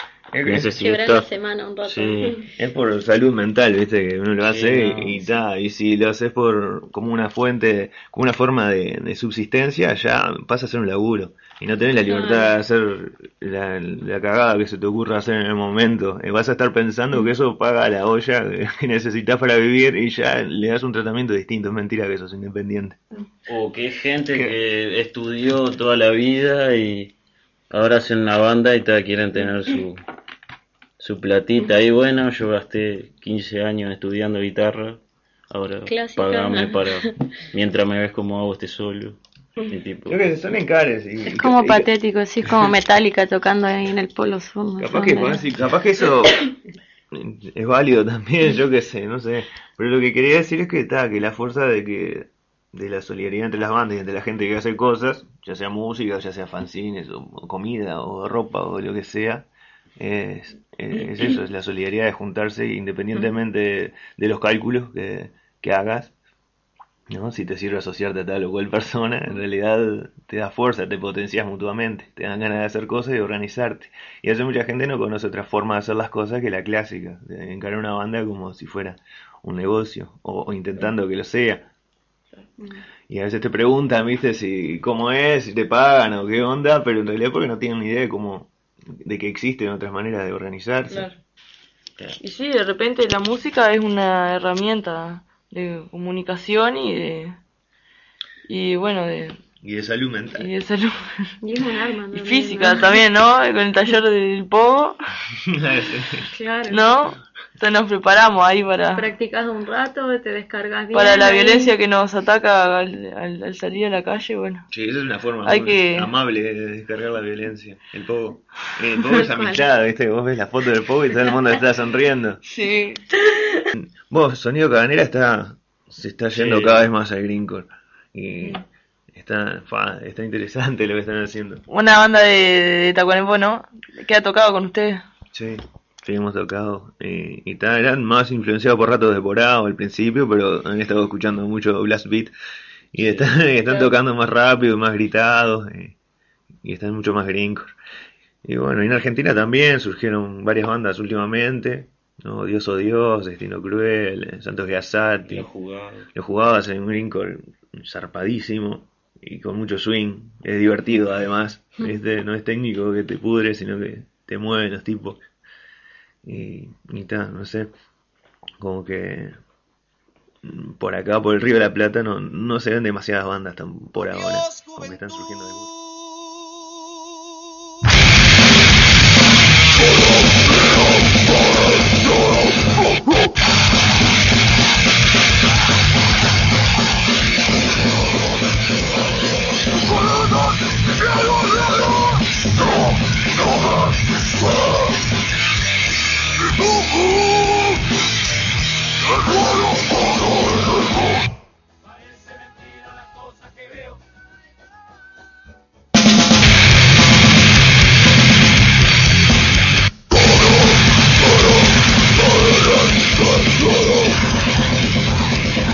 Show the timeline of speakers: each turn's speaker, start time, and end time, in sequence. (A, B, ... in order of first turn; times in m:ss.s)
0:00.3-0:00.7 A
0:00.4-0:01.3 B
0:00.7-0:02.5 C
0:01.8-0:02.4 B
0:02.6-0:23.0 A
0:04.5-0:05.2 B
0:12.0-0:12.5 C
0:23.5-0:27.1 B
0:27.7-0:30.0 B
0:31.0-0:40.2 B
0:35.9-0:37.1 C
0:40.1-0:41.9 A
0:41.2-0:45.4 C
0:44.8-0:46.5 A
0:47.1-1:06.1 A
1:07.1-1:21.7 A
1:23.1-1:28.5 A
1:29.0-1:31.1 A
1:32.2-1:37.4 D
1:38.5-1:39.4 D
1:39.6-1:40.5 A
1:40.4-1:41.3 D
1:41.4-1:42.9 C
1:42.1-1:45.0 D
1:45.4-1:46.3 A
1:46.3-1:46.9 C
1:46.7-1:49.0 D
1:48.9-1:51.7 C
1:50.9-1:54.6 D
1:54.7-2:02.4 A
1:55.4-1:56.1 D
1:59.1-1:59.6 C
2:02.5-2:03.1 D
2:03.7-2:08.6 A
2:06.3-2:06.9 B
2:09.1-2:11.6 A
2:11.7-2:15.0 D
2:15.3-2:22.3 A
2:22.9-2:26.0 A
2:26.6-2:27.7 A
2:28.4-2:35.5 A
2:35.3-2:36.1 B
2:36.1-2:45.2 A
2:46.2-2:47.7 A
2:48.6-2:49.4 A
2:50.4-2:55.7 A